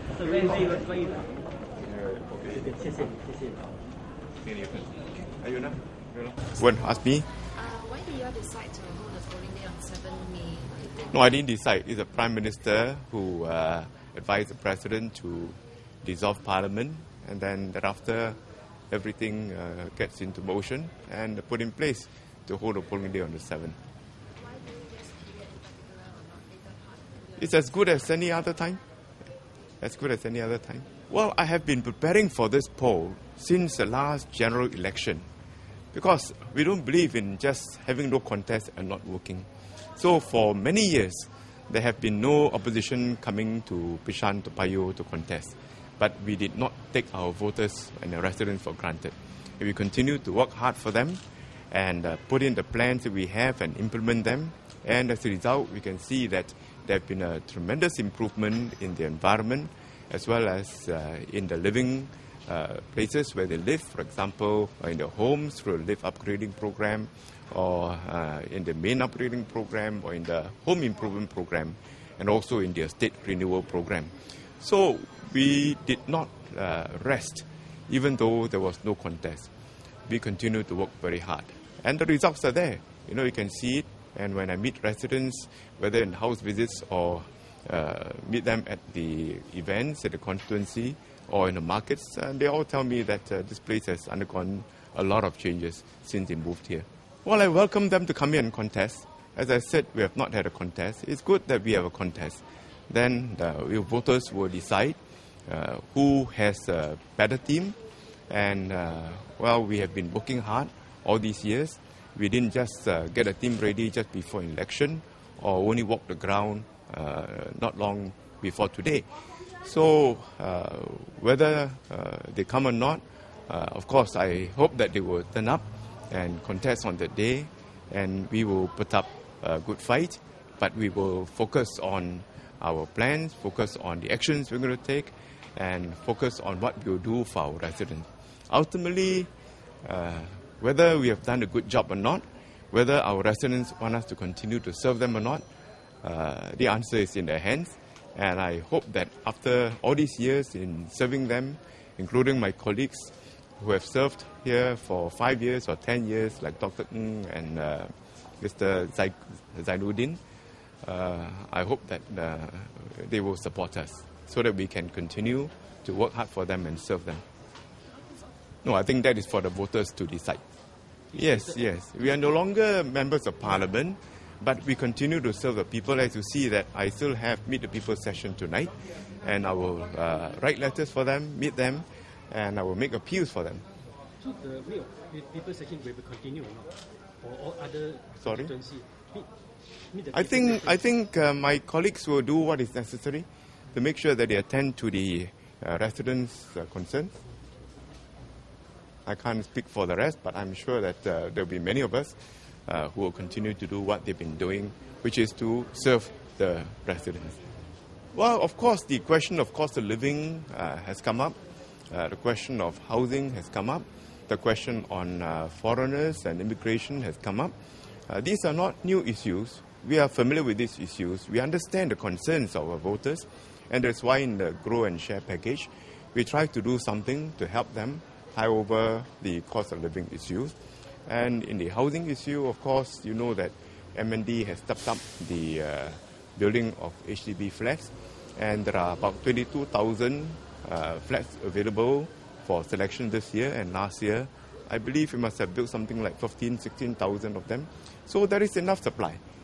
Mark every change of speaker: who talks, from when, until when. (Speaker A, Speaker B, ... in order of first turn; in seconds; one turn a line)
Speaker A: 0.1-1.3
Speaker A: 2.5-3.5
Speaker B: 4.4-7.3
Speaker C: 7.6-10.9
Speaker B: 11.1-18.4
Speaker B: 18.9-23.8
Speaker C: 24.5-26.9
Speaker B: 27.4-28.8
Speaker B: 29.8-35.3
Speaker B: 35.9-79.5
Speaker B: 80.1-107.8
Speaker B: 108.3-119.1
Speaker B: 119.6-139.3
Speaker B: 139.8-145.4
Speaker B: 146.0-160.2
Speaker B: 160.8-167.2
Speaker B: 168.6-170.4
Speaker B: 171.1-183.6
Speaker A: 184.2-189.3
Speaker B: 188.2-188.5
Speaker A: 189.9-190.8
Speaker B: 190.1-197.1
Speaker B: 199.1-207.4
Speaker B: 208.1-211.4
Speaker B: 211.9-217.5
Speaker B: 218.1-230.6
Speaker B: 231.1-249.2